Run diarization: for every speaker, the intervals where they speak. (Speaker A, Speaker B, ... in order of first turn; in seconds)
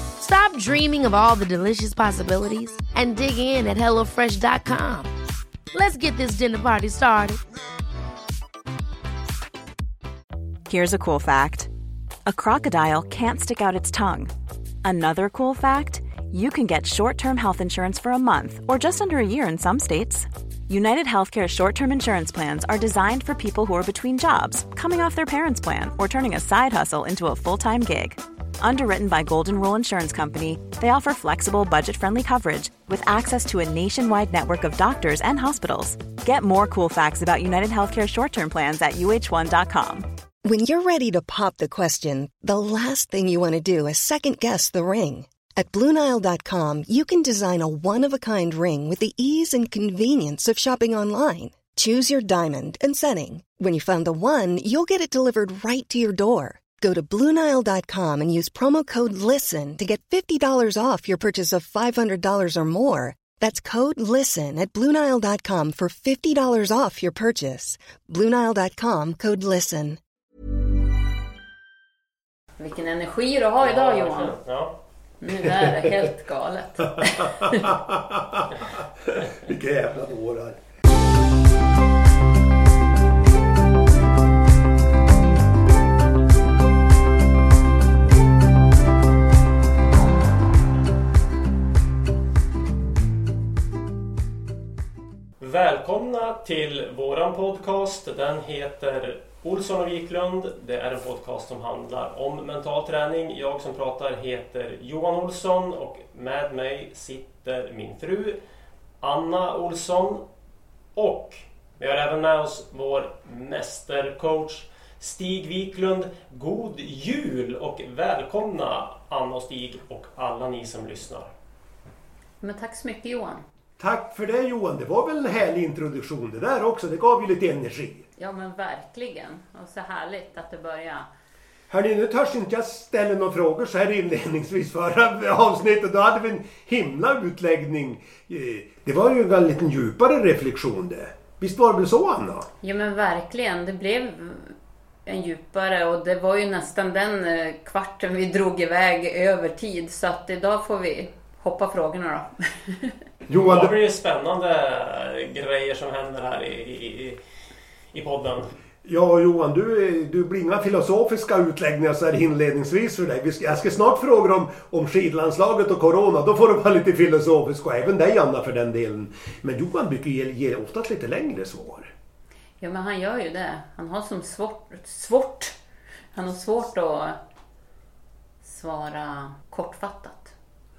Speaker A: 0.2-5.1, 5.7-7.4
Speaker B: 10.7-11.7, 12.2-14.3, 14.8-40.1
Speaker C: 40.5-70.0
Speaker D: 72.6-74.4, 75.2-77.6, 122.4-123.4, 128.2-131.1, 142.6-144.6, 145.1-153.0, 172.6-175.6, 176.1-177.2, 178.4-180.3
Speaker E: 73.6-74.7, 95.4-108.4, 109.0-110.2, 111.0-121.3, 153.4-157.2, 157.9-158.5
Speaker F: 77.4-80.6, 123.8-128.1, 131.7-142.5, 153.3-153.8, 158.8-171.9